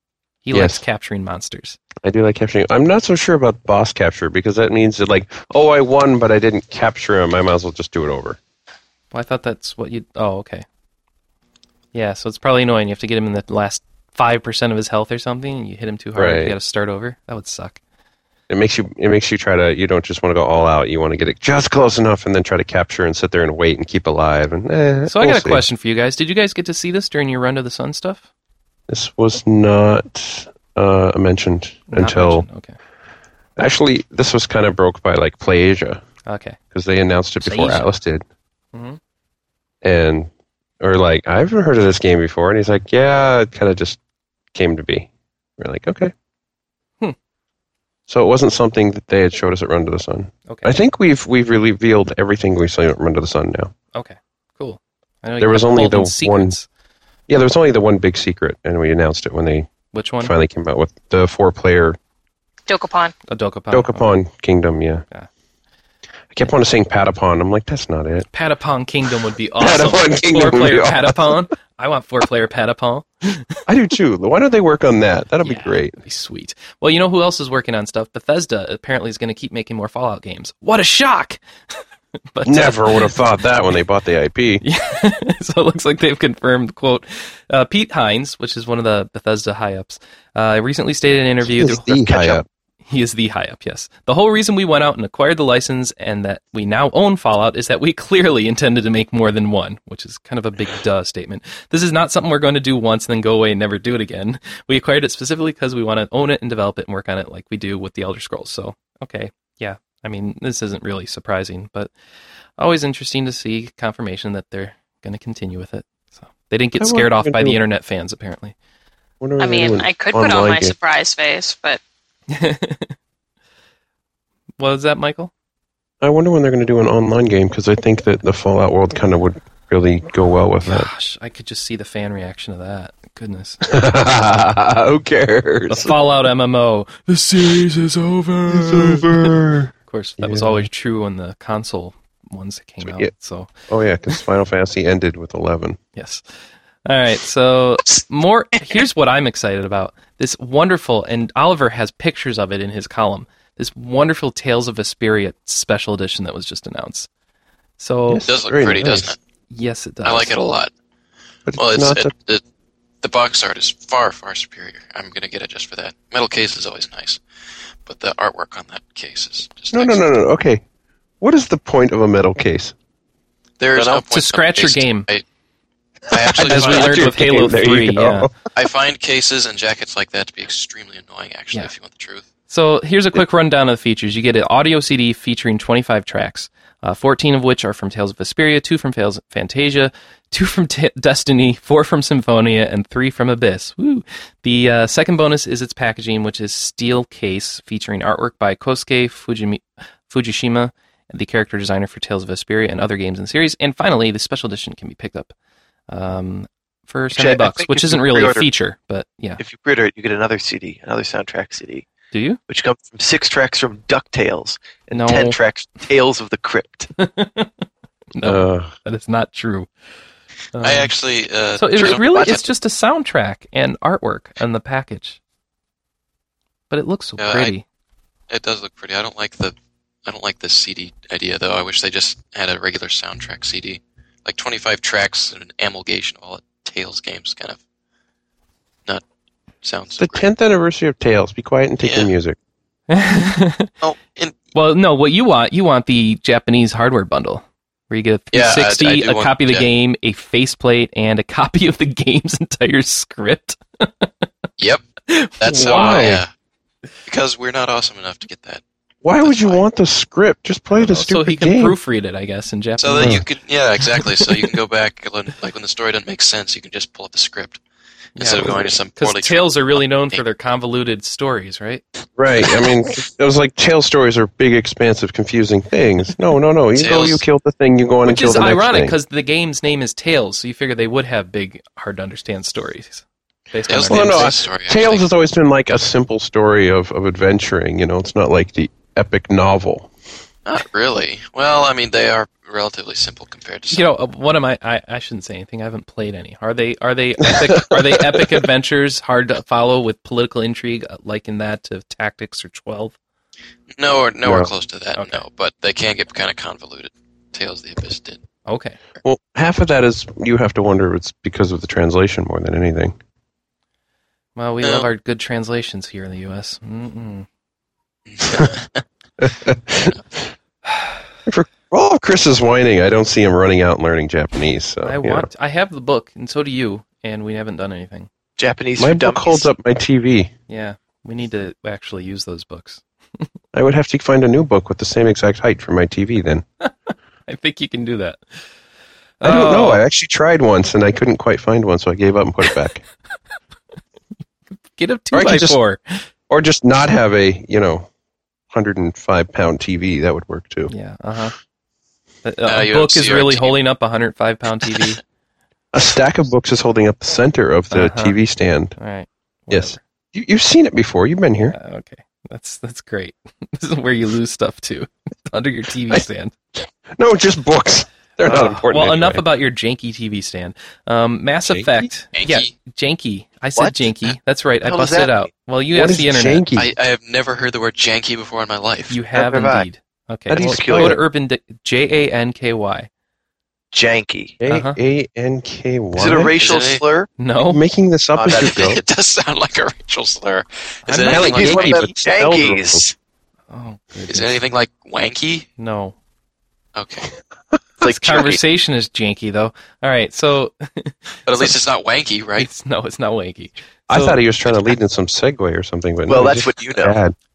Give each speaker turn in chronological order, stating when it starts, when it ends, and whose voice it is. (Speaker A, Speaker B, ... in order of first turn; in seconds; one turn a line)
Speaker A: 0.4-1.8
Speaker B: 0.5-0.8
Speaker B: 2.0-8.4
Speaker A: 9.1-10.6
Speaker A: 11.9-17.8
Speaker B: 16.1-16.5
Speaker B: 18.5-25.6
Speaker A: 25.1-28.2
Speaker B: 28.9-32.5
Speaker A: 31.9-32.8
Speaker B: 33.6-36.0
Speaker A: 36.2-36.6
Speaker B: 36.7-38.2
Speaker A: 37.4-37.9
Speaker A: 38.7-39.0
Speaker B: 39.8-40.3
Speaker B: 40.8-44.0
Speaker B: 44.5-46.1
Speaker B: 48.1-53.7
Speaker A: 50.5-50.7
Speaker A: 53.9-56.6
Speaker B: 55.4-56.6
Speaker B: 57.3-62.0
Speaker A: 59.9-60.3
Speaker C: 62.7-63.1
Speaker A: 63.3-64.1
Speaker B: 63.7-65.0
Speaker B: 66.3-68.3
Speaker A: 68.3-73.6
Speaker B: 69.6-71.4
Speaker B: 73.7-76.0
Speaker A: 75.4-81.4
Speaker A: 82.3-83.4
Speaker B: 82.4-84.6
Speaker A: 84.6-92.0
Speaker B: 91.4-92.5
Speaker D: 92.0-92.4
Speaker A: 92.8-111.9
Speaker A: 112.6-118.5
Speaker B: 116.8-117.6
Speaker B: 119.2-120.7
Speaker C: 119.4-121.8
Speaker A: 122.3-122.9
Speaker A: 124.6-125.3
Speaker B: 126.0-130.9
Speaker A: 130.6-133.6
Speaker B: 133.6-135.9
Speaker A: 135.7-139.3
Speaker B: 138.5-140.7
Speaker A: 139.9-143.5
Speaker B: 142.8-143.1
Speaker B: 143.7-145.8
Speaker A: 145.9-146.2
Speaker A: 146.8-157.1
Speaker A: 157.8-158.2
Speaker B: 158.1-159.2
Speaker E: 158.2-159.2
Speaker A: 159.5-160.4
Speaker E: 160.0-160.7
Speaker B: 161.5-162.1
Speaker E: 161.5-162.4
Speaker E: 163.0-167.2
Speaker E: 167.8-170.0
Speaker B: 169.7-170.6
Speaker B: 171.2-172.7
Speaker E: 173.6-175.2
Speaker A: 174.0-175.1
Speaker E: 176.1-177.2
Speaker B: 176.1-178.3
Speaker A: 176.4-178.3
Speaker E: 178.5-182.2
Speaker A: 182.5-205.3
Speaker A: 205.9-209.4
Speaker D: 207.1-208.5
Speaker D: 209.4-211.9
Speaker A: 212.1-212.4
Speaker D: 212.5-216.9
Speaker A: 214.9-215.4
Speaker A: 217.0-217.5
Speaker A: 218.1-219.7
Speaker B: 218.2-218.7
Speaker A: 220.5-220.9
Speaker E: 220.6-222.4
Speaker A: 221.6-225.2
Speaker D: 221.8-222.4
Speaker A: 226.7-227.6
Speaker E: 227.2-227.5
Speaker E: 228.3-237.6
Speaker E: 239.6-240.3
Speaker B: 240.0-242.4
Speaker E: 241.8-242.1
Speaker A: 242.9-243.7
Speaker E: 243.8-244.4
Speaker A: 244.5-254.3
Speaker E: 248.3-249.7
Speaker E: 254.6-254.8
Speaker A: 255.1-256.1
Speaker E: 255.4-256.3
Speaker B: 255.4-256.2
Speaker E: 257.1-258.6
Speaker B: 259.0-261.8
Speaker E: 259.2-259.6
Speaker A: 260.7-263.2
Speaker E: 262.8-267.6
Speaker B: 262.9-263.2
Speaker E: 268.1-270.2
Speaker A: 268.1-271.8
Speaker B: 272.1-279.0
Speaker E: 276.7-277.2
Speaker A: 278.1-284.4
Speaker E: 283.7-285.1
Speaker B: 283.9-289.9
Speaker E: 290.4-293.8
Speaker A: 293.7-302.9
Speaker B: 297.2-298.4
Speaker E: 303.7-308.2
Speaker B: 304.2-304.5
Speaker A: 304.9-305.2
Speaker A: 308.4-308.8
Speaker B: 309.0-312.9
Speaker A: 314.4-317.2
Speaker E: 314.6-314.9
Speaker E: 318.1-318.8
Speaker B: 319.2-320.0
Speaker B: 321.2-325.3
Speaker A: 324.8-328.1
Speaker D: 328.4-329.5
Speaker B: 328.8-330.3
Speaker A: 330.5-333.2
Speaker B: 333.5-336.4
Speaker A: 337.3-338.2
Speaker A: 339.2-339.8
Speaker B: 339.2-342.8
Speaker A: 344.7-346.1
Speaker B: 345.1-345.6
Speaker B: 346.3-347.9
Speaker B: 348.5-350.7
Speaker A: 350.7-351.3
Speaker A: 352.2-355.0
Speaker E: 352.4-353.6
Speaker B: 355.7-358.8
Speaker A: 357.7-358.2
Speaker A: 358.8-359.8
Speaker B: 359.5-361.6
Speaker A: 361.5-366.3
Speaker B: 366.9-369.2
Speaker A: 368.2-376.5
Speaker B: 371.4-371.9
Speaker E: 372.1-372.5
Speaker D: 373.5-373.9
Speaker D: 374.6-375.3
Speaker B: 375.7-376.7
Speaker E: 376.5-379.0
Speaker A: 378.9-382.9
Speaker D: 379.1-379.7
Speaker B: 380.3-381.0
Speaker D: 380.3-381.0
Speaker D: 383.7-384.4
Speaker B: 384.4-386.4
Speaker A: 384.4-384.8
Speaker D: 385.9-387.1
Speaker E: 386.4-386.8
Speaker A: 387.2-387.6
Speaker B: 387.5-388.8
Speaker D: 388.1-388.7
Speaker E: 388.3-391.9
Speaker A: 390.9-391.6
Speaker B: 391.1-392.8
Speaker D: 391.1-392.9
Speaker A: 393.5-394.3
Speaker E: 394.1-395.5
Speaker A: 395.6-395.9
Speaker E: 396.8-397.1
Speaker D: 397.8-398.4
Speaker A: 397.8-401.6
Speaker E: 401.2-402.5
Speaker A: 402.4-404.3
Speaker B: 403.9-407.1
Speaker D: 406.1-407.0